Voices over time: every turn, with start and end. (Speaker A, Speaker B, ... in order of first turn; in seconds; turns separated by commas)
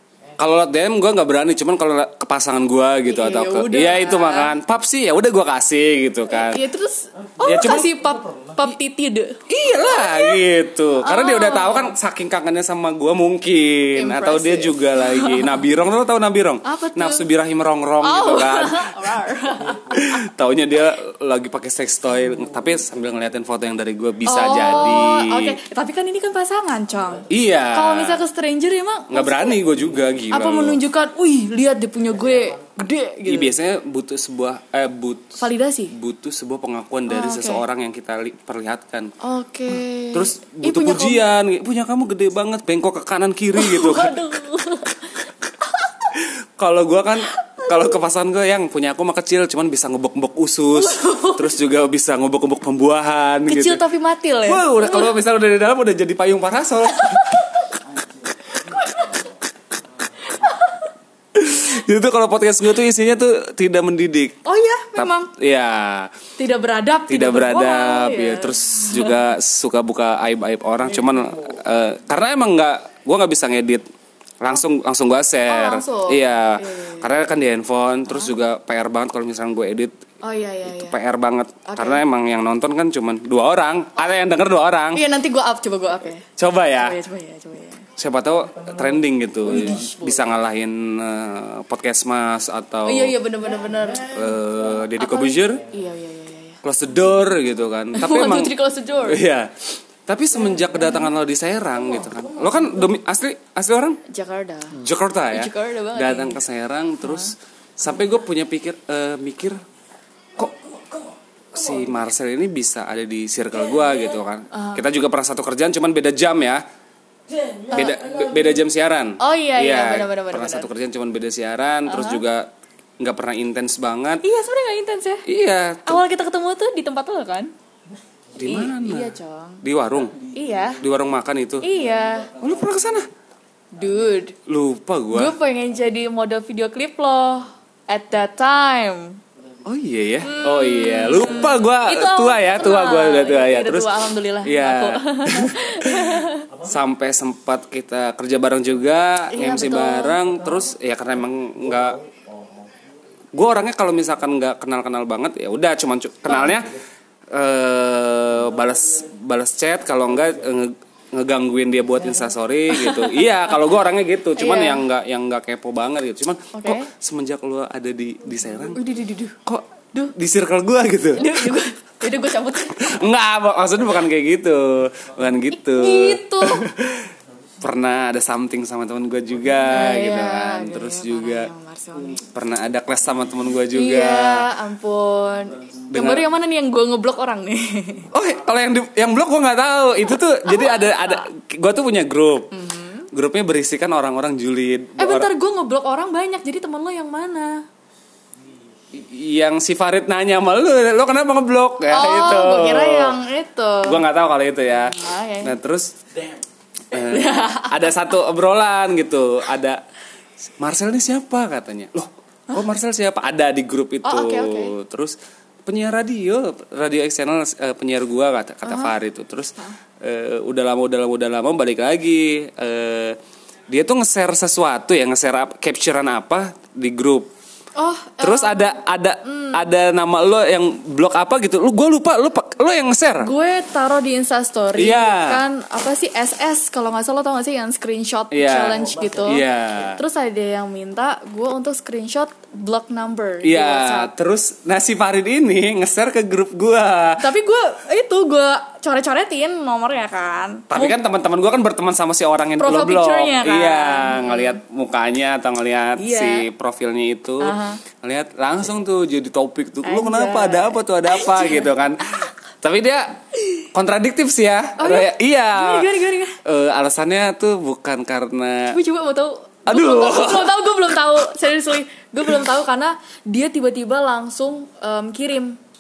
Speaker A: 0.4-6.7, Speaker B: 3.1-4.5, Speaker B: 6.3-10.4, Speaker A: 7.4-8.0, Speaker A: 9.5-19.1, Speaker B: 11.0-11.9, Speaker B: 14.0-15.6, Speaker B: 16.6-17.2, Speaker B: 18.0-20.2, Speaker A: 19.9-25.6, Speaker B: 24.3-29.6, Speaker A: 27.3-28.2, Speaker A: 29.1-30.8, Speaker B: 30.3-33.6, Speaker A: 33.3-35.4, Speaker B: 35.4-35.9, Speaker A: 35.9-39.1, Speaker B: 37.1-37.6, Speaker B: 39.2-41.2, Speaker A: 40.1-44.2, Speaker B: 43.6-45.1, Speaker A: 46.1-53.8, Speaker B: 50.8-51.5, Speaker B: 53.5-55.1, Speaker A: 54.4-57.6, Speaker B: 58.7-59.2, Speaker B: 60.4-60.8, Speaker A: 61.4-64.4, Speaker B: 64.5-65.3, Speaker A: 65.0-66.1, Speaker B: 66.4-69.2, Speaker A: 67.1-73.8, Speaker A: 74.4-79.9, Speaker B: 75.5-77.1, Speaker B: 80.2-81.0, Speaker A: 80.7-85.0, Speaker B: 81.7-82.0, Speaker B: 84.9-87.9, Speaker A: 86.4-87.0, Speaker A: 88.0-93.2, Speaker B: 89.5-90.3, Speaker B: 92.8-94.3, Speaker A: 94.1-95.6, Speaker B: 95.0-96.6, Speaker A: 96.6-98.5, Speaker B: 97.9-99.2, Speaker A: 99.1-104.0, Speaker B: 104.1-104.8, Speaker A: 104.7-109.6, Speaker B: 105.3-106.4, Speaker B: 107.0-107.3, Speaker A: 111.5-116.6, Speaker B: 114.5-114.8, Speaker A: 117.7-124.2, Speaker B: 117.7-118.0, Speaker B: 119.2-120.7, Speaker B: 121.9-122.2, Speaker B: 124.2-125.2, Speaker A: 125.3-126.0, Speaker B: 125.8-127.5, Speaker B: 128.4-129.6, Speaker A: 128.4-130.2, Speaker B: 130.3-130.8, Speaker A: 130.8-131.7, Speaker B: 131.6-132.3, Speaker A: 132.4-133.1, Speaker B: 133.7-134.4, Speaker A: 134.5-135.3, Speaker B: 135.1-139.2, Speaker A: 139.7-152.0, Speaker B: 140.2-146.5, Speaker B: 149.3-150.2, Speaker A: 153.3-156.8, Speaker B: 156.3-156.7, Speaker A: 157.3-168.8, Speaker B: 162.8-163.2, Speaker B: 164.4-164.8, Speaker B: 166.5-166.9, Speaker B: 168.8-169.4, Speaker A: 169.5-171.5, Speaker B: 171.2-173.0, Speaker A: 172.8-177.1, Speaker B: 175.6-176.7, Speaker A: 177.6-181.5, Speaker B: 179.7-182.2, Speaker A: 182.3-184.5, Speaker B: 183.7-188.1, Speaker A: 185.9-186.3, Speaker A: 188.1-192.5, Speaker B: 190.4-191.2, Speaker B: 192.5-193.1, Speaker A: 193.1-195.3, Speaker B: 195.0-197.6, Speaker A: 198.9-203.2, Speaker B: 201.9-204.0, Speaker A: 203.8-205.9, Speaker B: 204.8-205.6, Speaker A: 206.9-209.8, Speaker B: 207.0-207.8, Speaker A: 210.6-223.2, Speaker B: 214.0-214.8, Speaker B: 218.7-218.9, Speaker A: 223.7-227.3, Speaker B: 227.8-229.6, Speaker A: 228.2-233.3, Speaker B: 233.2-239.4, Speaker A: 234.8-235.4, Speaker A: 238.3-240.0, Speaker B: 240.0-244.1, Speaker A: 243.4-247.2, Speaker B: 247.2-251.0, Speaker A: 250.7-268.8, Speaker B: 252.6-254.6, Speaker B: 256.0-256.5, Speaker B: 257.4-257.8, Speaker B: 259.8-261.7, Speaker B: 264.8-266.4, Speaker B: 268.7-275.6, Speaker A: 269.7-270.7